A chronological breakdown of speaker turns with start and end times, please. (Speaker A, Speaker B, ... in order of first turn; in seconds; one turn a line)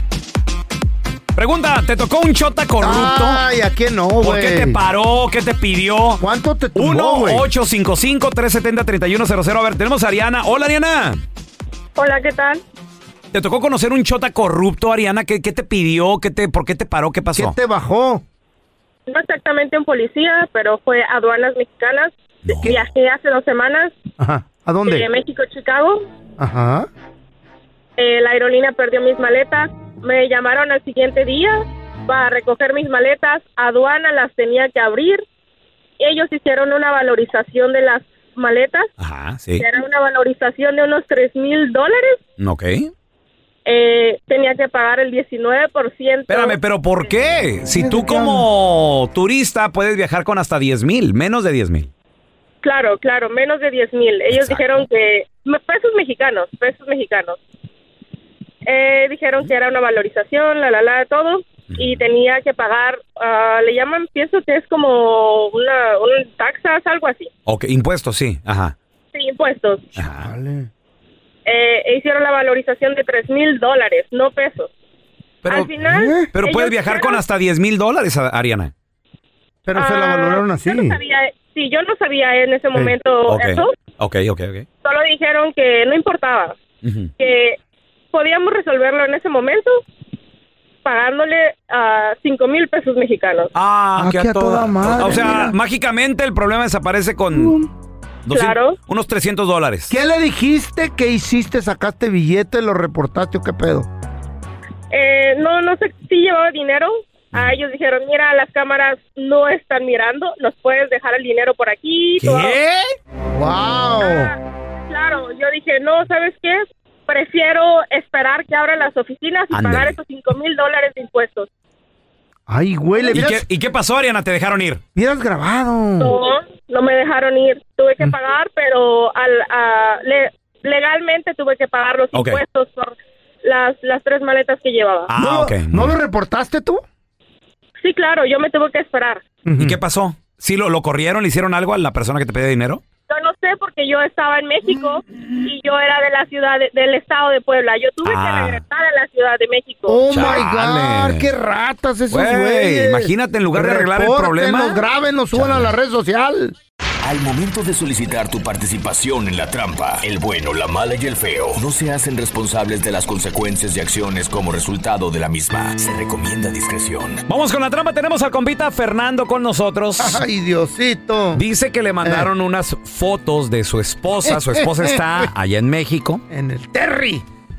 Speaker A: 1.3-3.4
Speaker B: 2.8-4.8
Speaker A: 4.2-6.2
Speaker B: 6.2-7.5
Speaker A: 6.7-11.2
Speaker C: 11.9-12.6
Speaker A: 13.3-17.6
Speaker B: 17.3-18.2
Speaker C: 19.1-24.0
Speaker A: 22.4-22.7
Speaker B: 24.2-25.1
Speaker C: 24.9-26.1
Speaker B: 26.4-26.9
Speaker C: 28.0-35.2
Speaker C: 36.0-38.9
Speaker A: 39.0-39.6
Speaker C: 39.6-42.2
Speaker A: 42.4-42.9
Speaker C: 43.6-46.6
Speaker A: 46.3-51.9
Speaker B: 47.7-48.5
Speaker C: 52.6-57.4
Speaker A: 54.3-54.9
Speaker C: 58.6-67.3
Speaker A: 61.7-62.0
Speaker A: 67.5-68.7
Speaker C: 69.1-70.0
Speaker A: 70.0-70.3
Speaker B: 70.1-70.7
Speaker C: 71.5-74.7
Speaker A: 75.4-75.7
Speaker C: 75.5-77.2
Speaker B: 75.8-76.3
Speaker A: 76.3-78.7
Speaker B: 79.7-81.0
Speaker C: 79.7-83.7
Speaker A: 83.3-84.7
Speaker C: 84.8-86.6
Speaker A: 86.8-87.1
Speaker C: 87.2-87.6
Speaker C: 88.1-89.8
Speaker C: 90.8-93.5
Speaker A: 93.5-97.6
Speaker B: 94.0-95.5
Speaker B: 97.3-97.7
Speaker A: 98.2-99.9
Speaker C: 98.3-98.8
Speaker B: 99.9-103.9
Speaker C: 104.9-112.6
Speaker A: 112.2-112.9
Speaker B: 113.3-114.3
Speaker C: 114.0-121.5
Speaker A: 119.5-120.0
Speaker B: 122.5-123.4
Speaker A: 123.1-124.8
Speaker B: 124.9-126.1
Speaker C: 126.0-135.1
Speaker A: 132.1-132.4
Speaker A: 135.1-135.9
Speaker B: 135.2-136.8
Speaker C: 137.8-139.2
Speaker B: 139.4-139.8
Speaker A: 139.6-142.8
Speaker C: 143.1-150.0
Speaker A: 148.0-148.6
Speaker B: 149.9-156.5
Speaker A: 150.1-151.3
Speaker A: 152.1-154.8
Speaker A: 155.3-155.7
Speaker D: 157.0-167.2
Speaker A: 167.3-170.2
Speaker B: 170.0-171.4
Speaker A: 171.3-176.2
Speaker B: 172.0-172.3
Speaker B: 174.2-175.3
Speaker B: 176.3-177.2